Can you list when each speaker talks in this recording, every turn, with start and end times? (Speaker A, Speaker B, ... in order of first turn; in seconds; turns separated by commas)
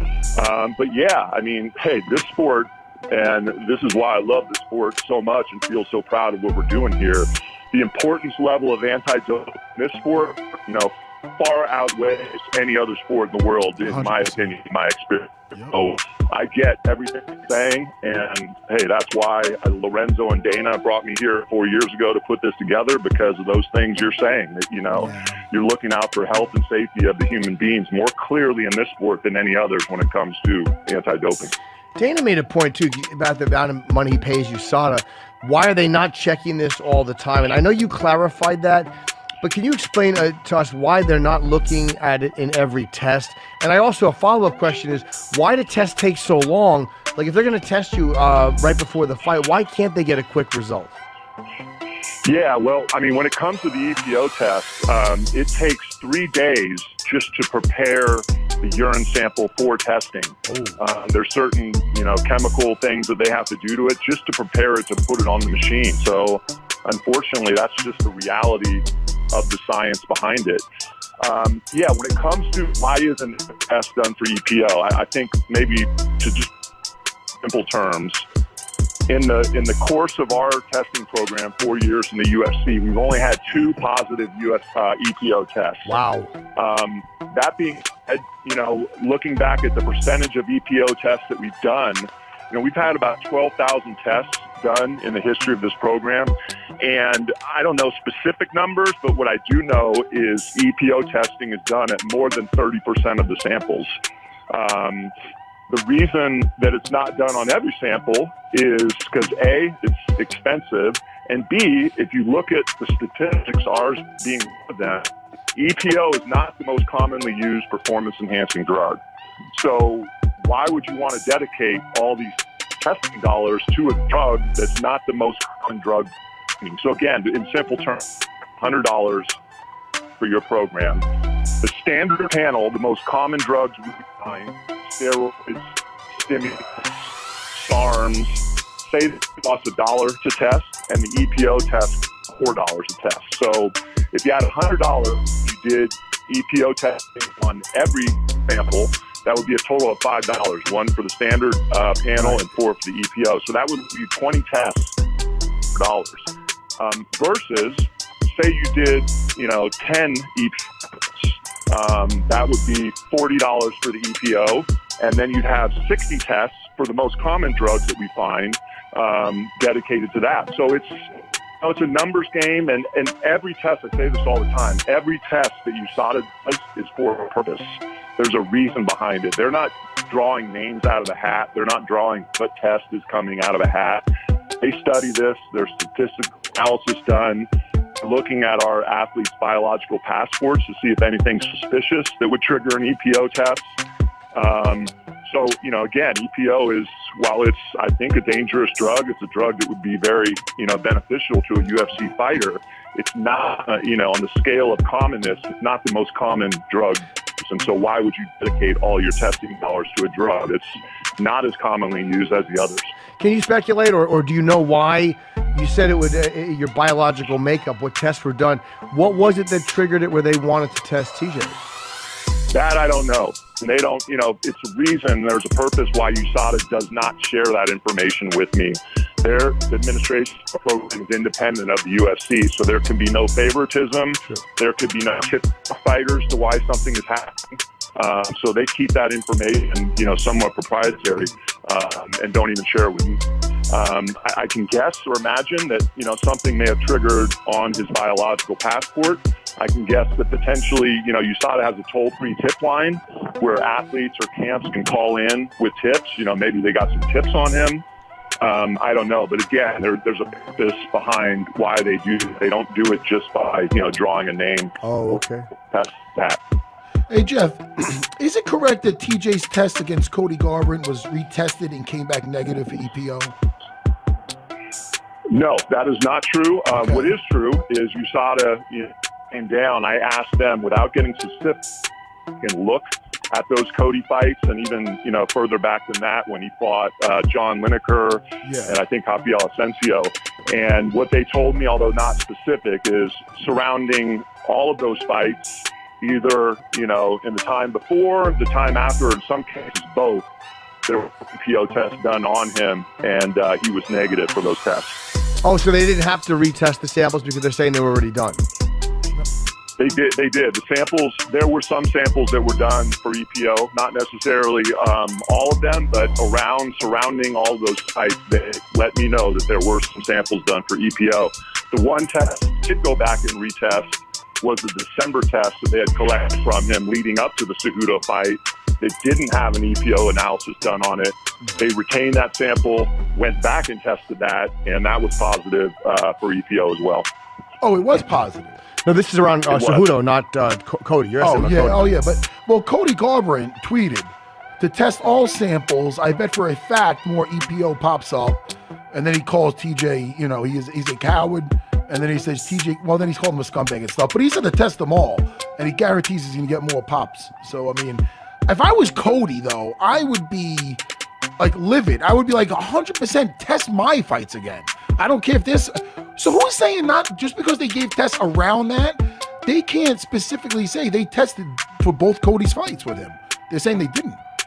Speaker A: 0.3-31.5, Speaker B: 13.9-14.3, Speaker B: 24.9-25.4, Speaker C: 31.9-51.0, Speaker A: 52.2-70.6, Speaker A: 71.2-76.5, Speaker A: 77.4-78.2, Speaker A: 79.1-85.9, Speaker C: 85.9-86.3, Speaker A: 86.5-103.9, Speaker A: 104.5-105.1, Speaker A: 105.7-119.0, Speaker A: 119.5-128.1, Speaker A: 128.6-129.3, Speaker A: 130.2-131.0, Speaker A: 131.6-136.9, Speaker A: 137.5-154.9, Speaker A: 155.7-171.1, Speaker A: 171.6-184.0, Speaker A: 184.6-187.5, Speaker A: 188.0-193.7, Speaker A: 194.3-212.9, Speaker C: 213.2-221.6, Speaker A: 222.5-257.8, Speaker A: 258.4-264.8, Speaker C: 264.8-265.5, Speaker A: 265.7-266.4, Speaker B: 267.1-273.3, Speaker A: 275.3-281.6, Speaker B: 276.7-277.1, Speaker A: 282.4-300.3, Speaker B: 288.4-288.8, Speaker A: 300.9-305.0, Speaker C: 305.4-308.4, Speaker A: 309.8-337.1, Speaker B: 337.6-338.6, Speaker C: 338.8-341.9, Speaker A: 339.5-339.9, Speaker B: 341.2-360.8, Speaker B: 361.4-374.2